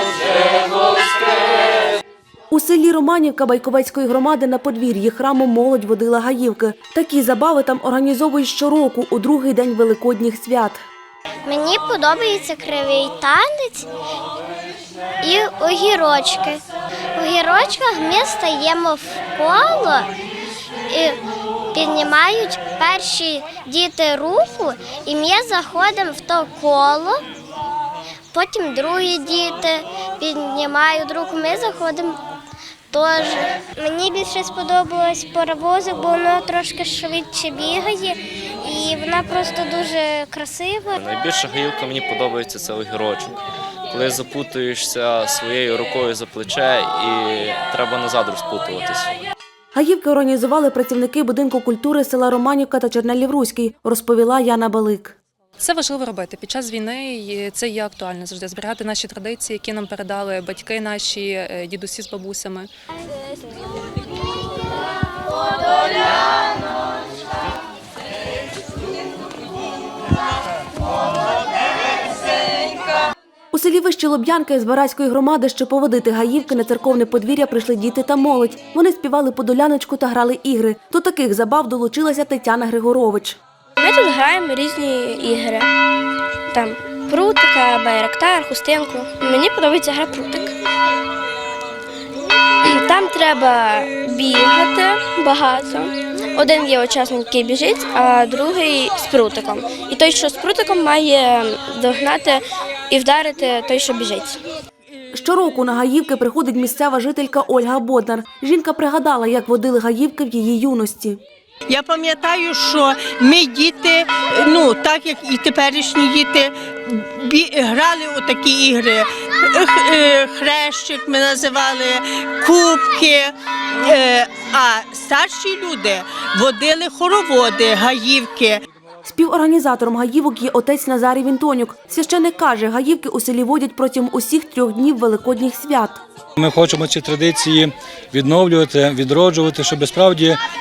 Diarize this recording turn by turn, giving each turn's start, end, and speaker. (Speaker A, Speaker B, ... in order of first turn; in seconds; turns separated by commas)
Speaker A: 2.5-10.8, Speaker B: 11.5-13.9, Speaker B: 15.2-16.6, Speaker B: 17.2-20.1, Speaker B: 20.9-21.2, Speaker B: 21.7-27.2, Speaker B: 28.3-32.2, Speaker B: 32.9-41.0, Speaker C: 41.0-49.1, Speaker A: 49.7-55.2, Speaker D: 55.6-62.7, Speaker A: 73.5-83.4, Speaker E: 83.8-85.7, Speaker E: 86.5-90.5, Speaker E: 92.7-104.4, Speaker A: 105.1-111.2, Speaker F: 111.7-128.6, Speaker A: 129.1-136.0, Speaker G: 136.4-140.4